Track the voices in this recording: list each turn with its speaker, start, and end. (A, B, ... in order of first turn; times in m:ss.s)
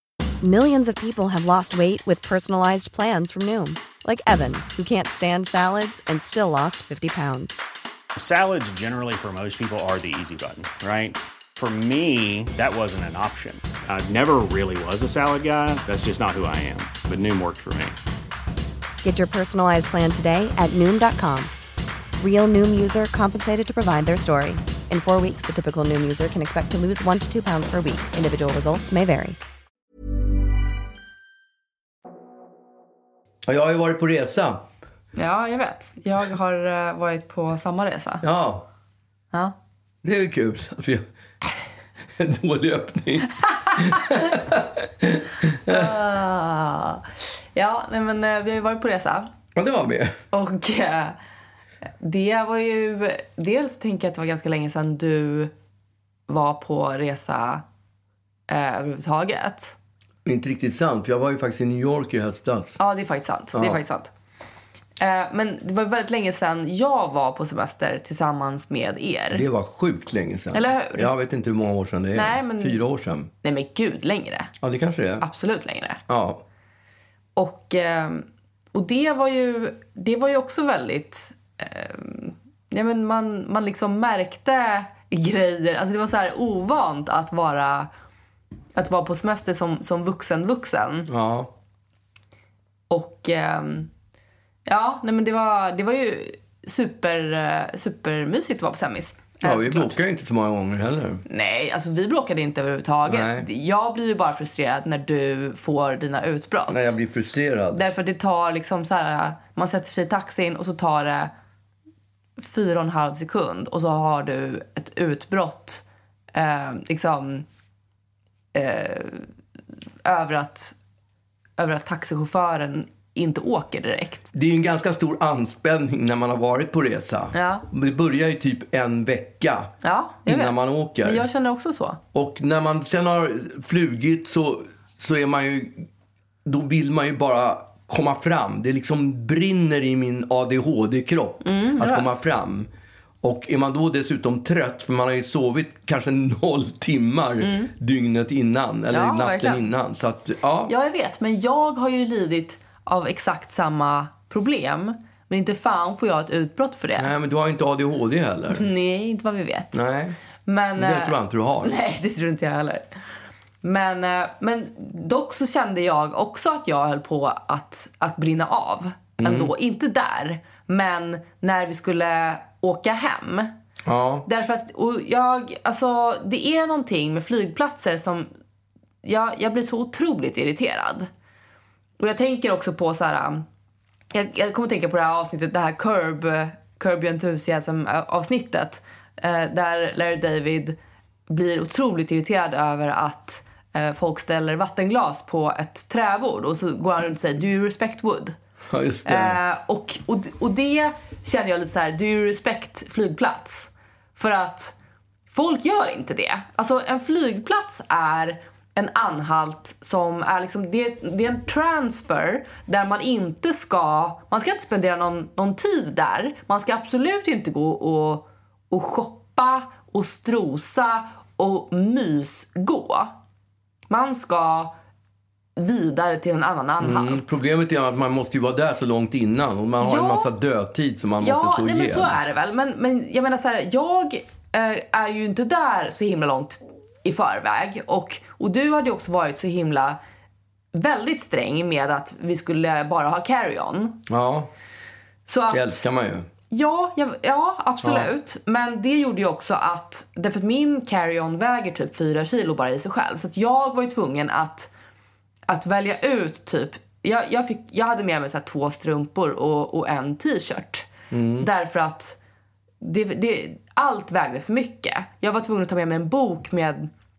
0:00.4-0:07.6 A
0:08.2-0:18.0 B
0:19.0-0:21.5 A
0:22.2-0:29.4 A
0:33.4-0:34.7 C
0:35.2-0:38.2 D
0:38.2-0:38.6 C
0:40.0-0:41.0 C
0:42.2-0:45.9 C
0:45.6-0:49.3 D
0:49.5-0:50.2 C
0:50.3-0:51.2 D
0:52.0-0:55.5 D
0:56.3-0:57.6 D
0:58.5-0:59.8 D
1:00.2-1:02.8 C
1:02.8-1:04.1 D
1:03.5-1:03.8 C
1:05.0-1:09.4 D
1:09.3-1:13.3 C
1:10.5-1:11.1 D
1:12.1-1:12.8 D
1:13.4-1:14.5 D
1:14.6-1:15.2 C
1:15.2-1:16.0 D
1:16.1-1:16.4 C
1:17.4-1:27.9 D
1:28.7-1:31.1 D
1:31.1-1:31.5 C
1:32.9-1:33.9 D
1:34.6-1:40.0 D
1:39.4-1:41.2 C
1:41.3-1:47.0 D
1:43.0-1:43.5 C
1:46.7-1:47.8 C
1:47.7-1:51.3 D
1:52.4-1:57.4 D
1:58.5-1:59.3 D
2:00.0-2:00.7 D
2:01.6-2:04.3 D
2:04.3-2:09.7 C
2:07.3-2:07.6 D
2:09.8-2:12.0 D
2:10.2-2:11.2 C
2:12.1-2:15.9 C
2:16.4-2:22.7 C
2:21.4-2:22.2 D
2:23.2-2:30.7 C
2:27.4-2:27.7 D
2:28.9-2:29.6 D
2:30.7-2:37.1 D
2:37.0-2:38.6 C
2:38.5-2:39.8 D
2:39.7-2:40.2 C
2:40.4-2:42.8 D
2:40.8-2:41.7 C
2:43.6-2:53.5 D
2:49.2-2:49.5 C
2:53.8-2:54.2 C
2:54.3-2:58.3 D
2:59.0-3:01.1 D
3:02.0-3:03.4 D
3:04.1-3:10.8 D
3:11.3-3:18.4 D
3:18.7-3:19.4 C
3:19.0-3:24.7 D
3:25.3-3:43.1 D
3:43.9-3:44.7 D
3:45.6-3:47.4 D
3:46.8-3:52.1 C
3:49.8-3:50.3 D
3:51.2-4:00.0 D
4:00.7-4:04.0 D
4:04.1-4:04.5 C
4:05.2-4:05.8 D
4:05.5-4:06.3 C
4:06.5-4:14.7 D
4:07.8-4:08.1 C
4:15.5-4:22.2 D
4:21.1-4:21.5 C
4:22.8-4:26.9 D